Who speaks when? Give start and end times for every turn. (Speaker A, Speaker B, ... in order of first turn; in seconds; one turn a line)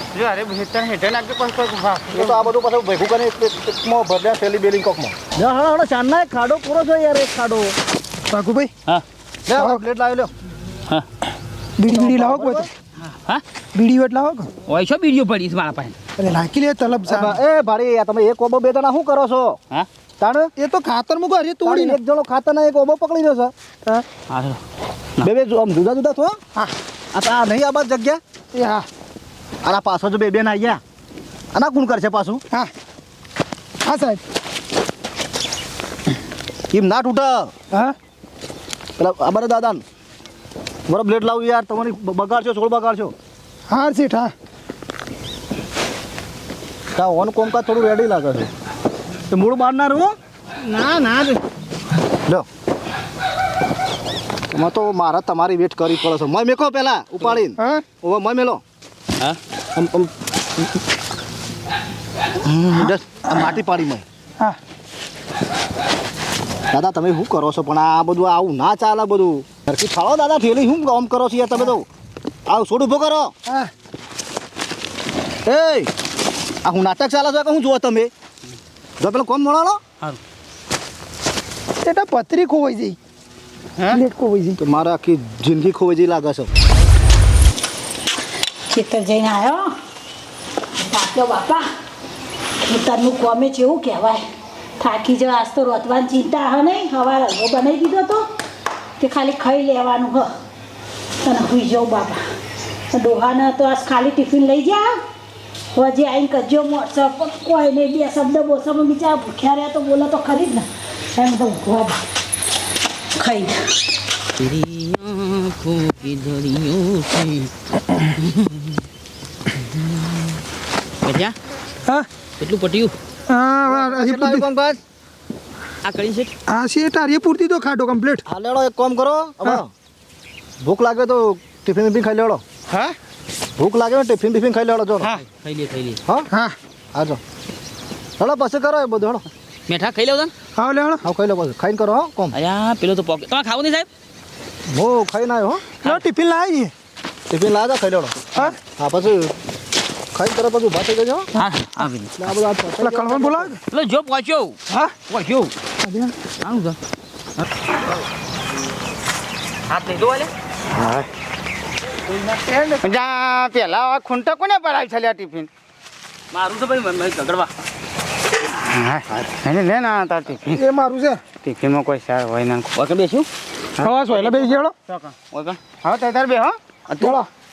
Speaker A: 0.1-2.5
Speaker B: 2.1-7.8
Speaker C: 8.3-8.7
Speaker B: 9.5-10.3
Speaker C: 11.8-12.7
Speaker B: 11.9-12.7
Speaker D: 13.0-13.4
Speaker C: 13.7-14.5
Speaker D: 14.7-15.9
Speaker C: 16.2-17.3
Speaker B: 17.1-19.6
Speaker B: 20.2-20.5
Speaker C: 20.6-22.0
Speaker B: 21.6-23.5
Speaker D: 24.3-24.6
Speaker B: 25.2-26.4
Speaker B: 27.1-28.2
Speaker C: 28.5-28.9
Speaker B: 29.6-30.8
Speaker B: 31.5-32.4
Speaker C: 33.8-34.2
Speaker B: 36.7-37.5
Speaker B: 39.0-39.8
Speaker B: 40.9-43.1
Speaker C: 43.7-44.3
Speaker B: 46.9-48.5
Speaker B: 49.3-50.1
Speaker A: 50.6-51.4
Speaker B: 54.5-58.6
Speaker C: 57.6-57.9
Speaker B: 59.7-60.1
Speaker B: 62.4-64.0
Speaker B: 66.7-71.9
Speaker B: 72.5-73.3
Speaker B: 75.4-75.9
Speaker B: 76.6-78.1
Speaker B: 79.0-79.8
Speaker C: 81.9-83.0
Speaker A: 83.8-84.0
Speaker C: 83.9-84.6
Speaker B: 84.6-86.5
Speaker E: 88.7-89.7
Speaker E: 90.8-91.7
Speaker E: 92.6-94.2
Speaker E: 94.8-98.2
Speaker E: 99.0-100.3
Speaker E: 101.2-102.2
Speaker E: 102.9-105.0
Speaker E: 105.7-112.0
Speaker E: 113.2-113.7
Speaker D: 114.4-117.5
Speaker D: 118.1-118.8
Speaker D: 119.7-120.1
Speaker D: 121.0-121.3
Speaker D: 122.4-123.0
Speaker C: 123.3-124.5
Speaker B: 123.6-124.8
Speaker D: 125.8-126.3
Speaker C: 126.5-128.2
Speaker B: 128.3-129.7
Speaker B: 130.6-132.4
Speaker A: 132.7-132.9
Speaker B: 133.6-135.2
Speaker D: 135.0-136.0
Speaker C: 136.3-136.6
Speaker B: 136.9-137.2
Speaker B: 138.2-139.2
Speaker D: 139.7-140.3
Speaker C: 140.6-141.0
Speaker B: 141.0-142.4
Speaker D: 142.3-143.9
Speaker B: 144.7-145.7
Speaker C: 145.8-146.7
Speaker B: 147.3-149.3
Speaker B: 150.1-151.3
Speaker D: 151.3-152.1
Speaker B: 152.2-153.6
Speaker C: 152.8-153.6
Speaker D: 153.7-154.6
Speaker D: 155.1-155.5
Speaker C: 155.8-156.2
Speaker D: 156.4-156.8
Speaker D: 159.7-160.3
Speaker A: 160.7-161.1
Speaker A: 162.8-165.5
Speaker D: 166.3-167.5
Speaker A: 168.4-170.6
Speaker C: 170.6-171.2
Speaker A: 171.4-172.8
Speaker D: 172.7-173.3
Speaker A: 173.8-175.2
Speaker C: 173.8-174.7
Speaker D: 175.3-175.6
Speaker A: 175.7-176.6
Speaker D: 176.9-177.2